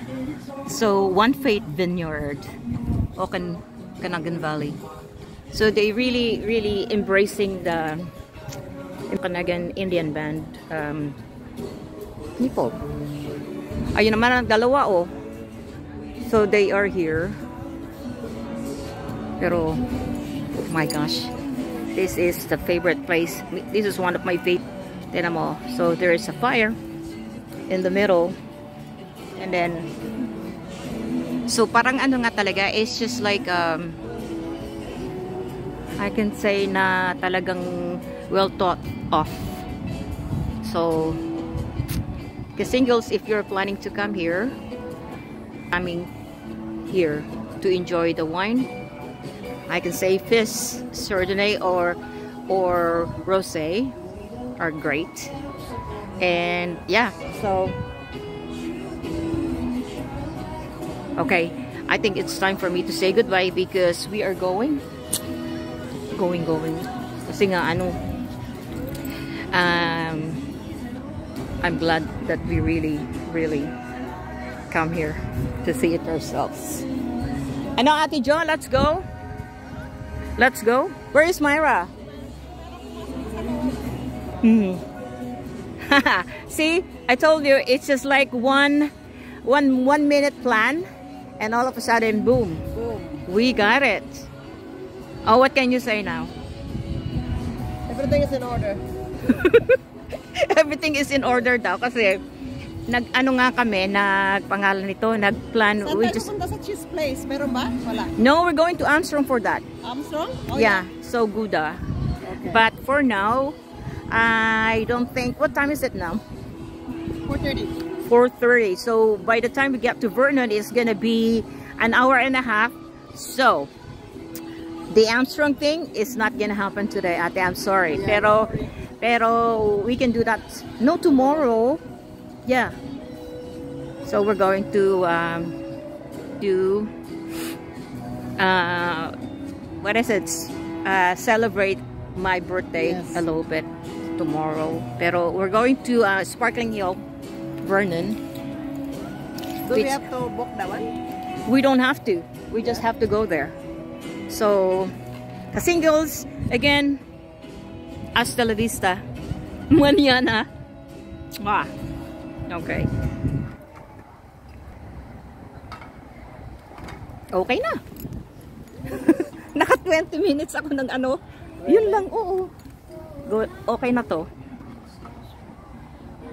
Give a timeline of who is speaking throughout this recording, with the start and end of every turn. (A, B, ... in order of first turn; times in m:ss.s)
0:00.7-0:02.5 A
0:03.2-0:04.8 A
0:05.5-0:08.1 A
0:09.1-0:11.2 A
0:12.4-0:12.8 A
0:13.9-0:15.1 A
0:16.2-0:17.4 A
0:19.4-0:19.8 A
0:20.6-0:21.3 A
0:21.9-0:26.8 A
0:27.7-0:28.4 A
0:29.4-0:29.9 A
0:31.5-0:34.0 A
0:36.0-0:39.4 A
0:40.6-0:41.2 A
0:42.6-0:44.6 A
0:45.7-0:46.1 A
0:46.9-0:48.7 A
0:49.7-0:54.0 A
0:54.6-0:55.3 A
0:56.2-0:57.8 A
1:01.2-1:04.8 A
1:06.1-1:08.0 A
1:09.5-1:10.4 A
1:11.6-1:13.7 A
1:14.7-1:16.8 A
1:17.8-1:19.1 A
1:20.4-1:21.9 A
1:24.4-1:24.8 A
1:25.8-1:28.9 A
1:29.4-1:30.8 A
1:31.4-1:32.7 A
1:33.2-1:34.3 A
1:35.2-1:36.3 A
1:37.9-1:38.8 B
1:39.3-1:39.8 A
1:40.3-1:42.2 A
1:42.9-1:46.3 A
1:45.8-1:48.1 B
1:48.2-1:49.6 A
1:49.8-1:50.8 B
1:50.5-1:53.6 A
1:52.3-1:52.6 B
1:54.1-1:56.2 A
1:57.3-1:57.7 B
1:58.1-2:03.7 A
2:04.9-2:11.8 A
2:12.4-2:12.8 A
2:14.1-2:15.6 A
2:16.4-2:16.9 A
2:18.4-2:19.1 A
2:19.8-2:27.0 A
2:22.9-2:23.2 B
2:27.6-2:28.2 A
2:29.7-2:30.9 B
2:29.7-2:30.1 A
2:31.5-2:33.6 A
2:34.3-2:34.9 A
2:35.5-2:37.0 A
2:38.2-2:39.0 A
2:39.7-2:40.5 A
2:41.4-2:41.7 A
2:42.5-2:42.9 A
2:47.3-2:47.8 A
2:48.9-2:52.5 A
2:53.3-2:54.3 A